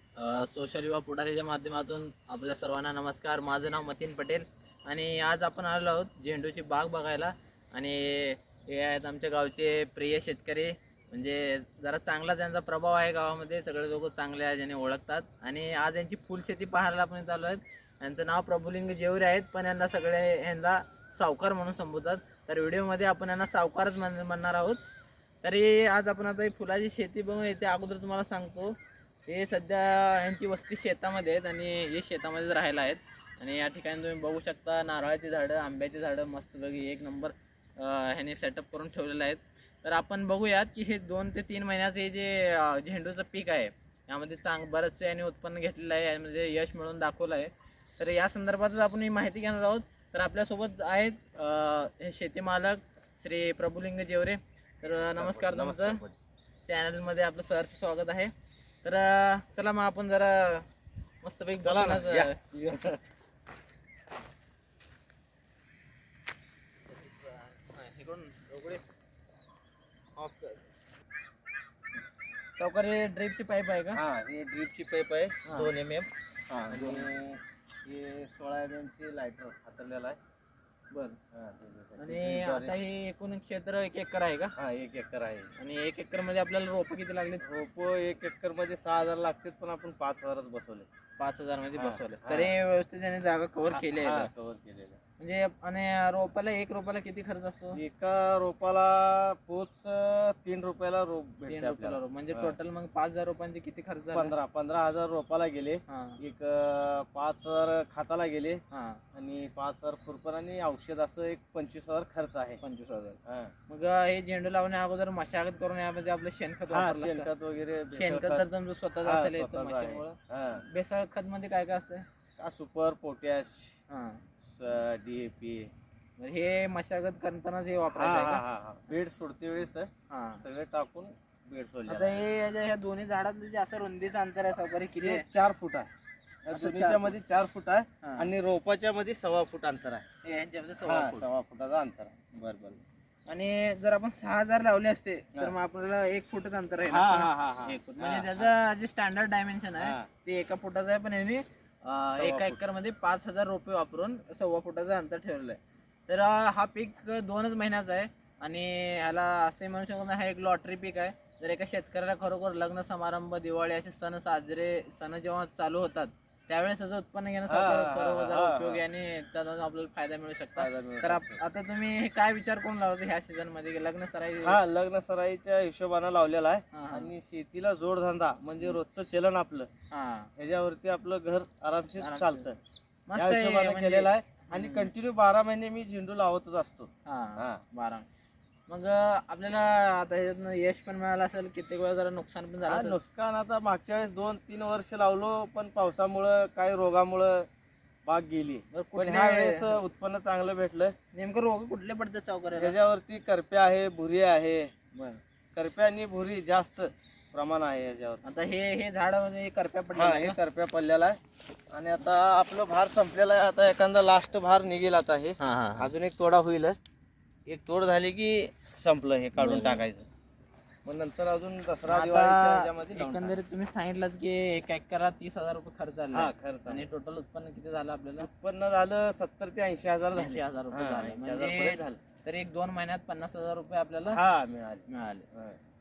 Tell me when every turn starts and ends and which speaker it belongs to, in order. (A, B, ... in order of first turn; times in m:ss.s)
0:00.2-0:24.8 A
0:25.4-0:56.0 A
0:55.2-0:56.1 B
0:56.7-1:00.7 A
1:01.2-1:02.4 A
1:01.6-1:03.0 B
1:06.9-1:08.8 A
1:10.2-1:10.6 A
1:12.6-1:14.0 A
1:14.0-1:20.2 B
1:15.5-1:15.7 A
1:16.7-1:17.1 A
1:20.9-1:21.2 A
1:21.3-1:22.8 B
1:22.0-1:24.5 A
1:24.6-1:25.5 B
1:25.6-1:27.4 A
1:27.4-1:30.9 B
1:31.2-1:34.3 A
1:31.8-1:32.5 B
1:33.7-1:35.0 B
1:35.2-1:37.8 A
1:37.7-1:42.6 B
1:41.5-1:44.3 A
1:44.1-1:48.6 B
1:45.9-1:46.2 A
1:48.7-1:49.0 A
1:49.2-1:52.6 B
1:52.6-1:57.3 A
1:53.3-1:53.5 B
1:56.7-1:58.4 B
1:57.9-2:02.0 A
1:59.0-2:00.6 B
2:02.4-2:03.8 B
2:03.9-2:04.2 A
2:04.5-2:05.7 B
2:06.2-2:08.4 A
2:08.0-2:09.9 B
2:10.1-2:10.4 A
2:10.4-2:12.2 B
2:11.9-2:15.2 A
2:15.0-2:15.9 B
2:16.5-2:20.0 B
2:16.5-2:17.2 A
2:18.0-2:18.3 A
2:20.2-2:21.2 A
2:20.8-2:22.8 B
2:23.3-2:54.6 A
2:26.9-2:28.5 B
2:29.8-2:30.1 B
2:32.2-2:32.6 B
2:47.5-2:48.8 B
2:50.6-2:51.4 B
2:54.4-2:59.7 B
2:56.7-2:57.1 A
2:59.9-3:00.3 A
3:00.4-3:02.6 B
3:02.0-3:02.4 A
3:03.1-3:04.9 A
3:03.2-3:07.6 B
3:07.1-3:08.0 A
3:08.7-3:13.0 A
3:12.7-3:17.5 B
3:18.1-3:20.9 B
3:18.7-3:19.8 A
3:21.1-3:22.8 A
3:22.6-3:24.7 B
3:25.0-3:25.2 A
3:25.6-3:28.2 B
3:28.2-3:30.4 A
3:30.0-3:31.2 B
3:31.7-3:36.8 B
3:35.4-3:35.9 A
3:37.5-3:40.1 B
3:39.4-3:39.8 A
3:40.8-3:43.4 B
3:41.9-3:48.3 A
3:46.1-3:46.9 B
3:48.2-3:52.0 B
3:50.2-3:54.2 A
3:54.1-3:55.6 B
3:54.9-3:55.2 A